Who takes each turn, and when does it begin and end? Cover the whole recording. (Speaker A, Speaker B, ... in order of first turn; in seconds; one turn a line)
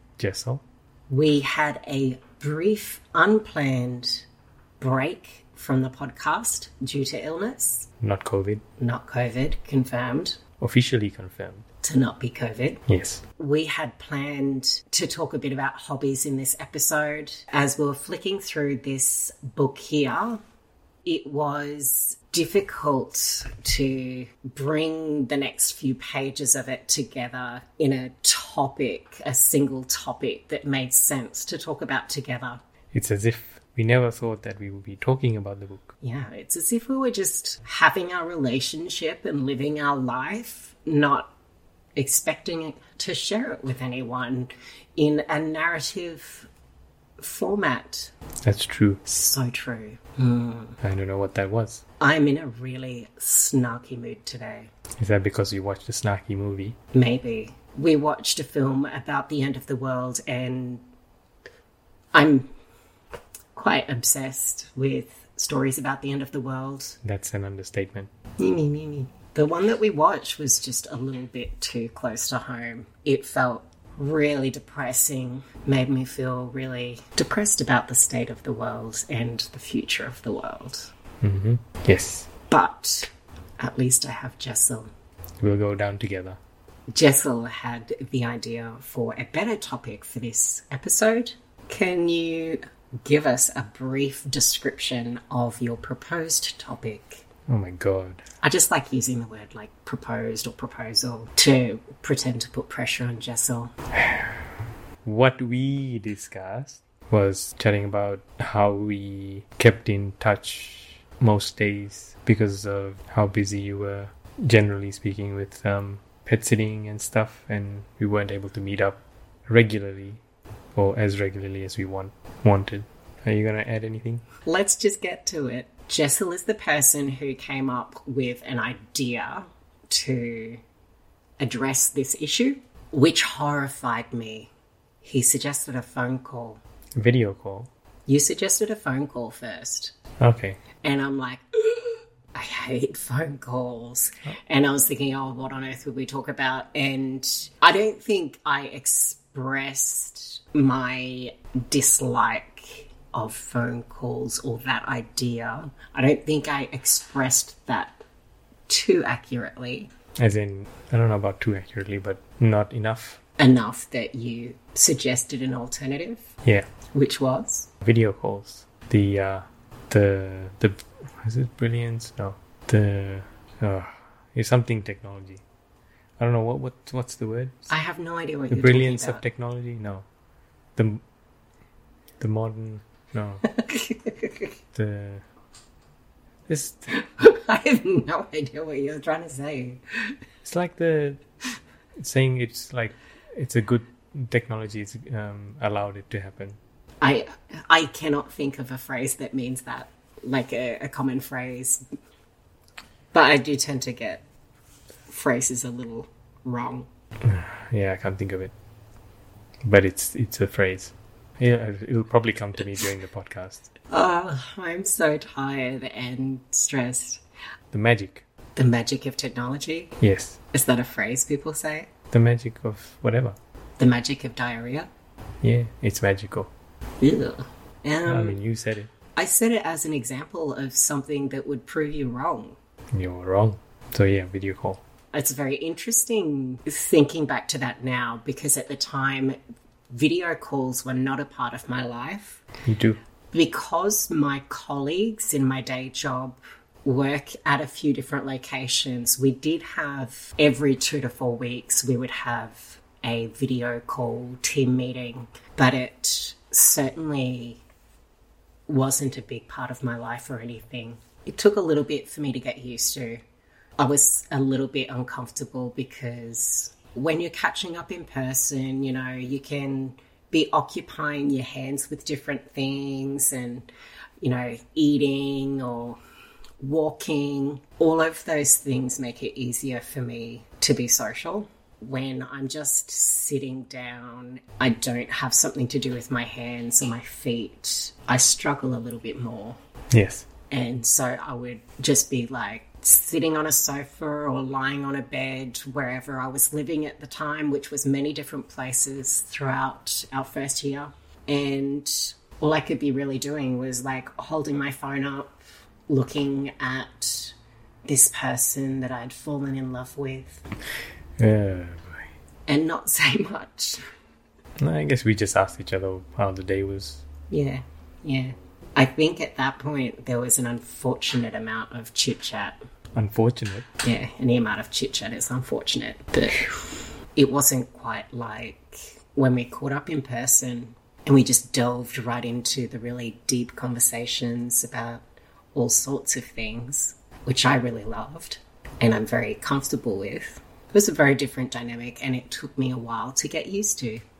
Speaker A: 0.2-0.6
Speaker B: 1.1-4.2
Speaker B: 4.8-7.9
Speaker A: 8.0-8.6
Speaker B: 8.8-10.4
Speaker A: 10.6-11.6
Speaker B: 11.8-12.8
Speaker A: 12.9-13.2
Speaker B: 13.4-20.4
Speaker B: 21.0-32.6
Speaker A: 32.9-35.9
Speaker B: 36.0-41.3
Speaker B: 42.0-46.5
Speaker B: 47.2-48.1
Speaker A: 48.4-49.0
Speaker B: 49.0-50.8
Speaker A: 50.8-51.8
Speaker B: 52.0-54.7
Speaker A: 55.0-56.8
Speaker B: 56.9-60.8
Speaker B: 62.1-62.5
Speaker B: 63.5-67.0
Speaker A: 67.0-68.1
Speaker B: 68.4-80.9
Speaker A: 81.2-82.3
Speaker B: 82.5-84.9
Speaker A: 85.4-86.4
Speaker B: 86.9-97.2
Speaker A: 97.5-98.2
Speaker B: 98.4-103.7
Speaker A: 104.0-104.3
Speaker A: 105.0-120.2
Speaker A: 120.7-124.2
Speaker B: 124.4-130.6
Speaker B: 131.4-134.5
Speaker B: 135.0-136.6
Speaker A: 136.9-137.7
Speaker B: 138.1-139.9
Speaker A: 140.2-140.6
Speaker B: 140.8-158.0
Speaker B: 158.7-159.9
Speaker A: 160.2-163.2
Speaker B: 163.4-166.3
Speaker B: 166.9-167.7
Speaker A: 167.8-175.4
Speaker A: 176.2-177.7
Speaker B: 177.7-179.2
Speaker A: 178.5-180.1
Speaker A: 182.2-183.4
Speaker B: 183.4-184.5
Speaker A: 184.7-185.2
Speaker A: 186.5-186.9
Speaker B: 186.9-190.1
Speaker A: 190.4-191.2
Speaker A: 192.0-196.6
Speaker B: 197.0-201.8
Speaker B: 203.1-204.2
Speaker B: 205.1-206.9
Speaker A: 207.2-208.5
Speaker A: 209.7-213.7
Speaker B: 213.9-217.2
Speaker A: 217.7-218.2
Speaker B: 218.6-219.9
Speaker A: 220.0-220.4
Speaker B: 220.5-221.9
Speaker A: 222.1-223.3
Speaker B: 223.8-224.9
Speaker A: 225.4-226.5
Speaker B: 227.0-228.4
Speaker A: 228.1-228.9
Speaker B: 229.2-232.6
Speaker A: 232.9-234.8
Speaker B: 235.1-239.3
Speaker B: 239.9-242.4
Speaker A: 242.6-243.0
Speaker B: 243.3-257.6
Speaker B: 258.7-263.2
Speaker B: 263.8-273.7
Speaker B: 274.2-276.0
Speaker B: 276.6-289.6
Speaker A: 289.9-290.3
Speaker B: 290.5-307.3
Speaker B: 307.9-310.4
Speaker A: 311.2-312.1
Speaker B: 312.5-313.8
Speaker A: 314.6-317.1
Speaker B: 317.3-322.6
Speaker A: 322.9-323.6
Speaker B: 323.8-335.0
Speaker B: 335.5-344.0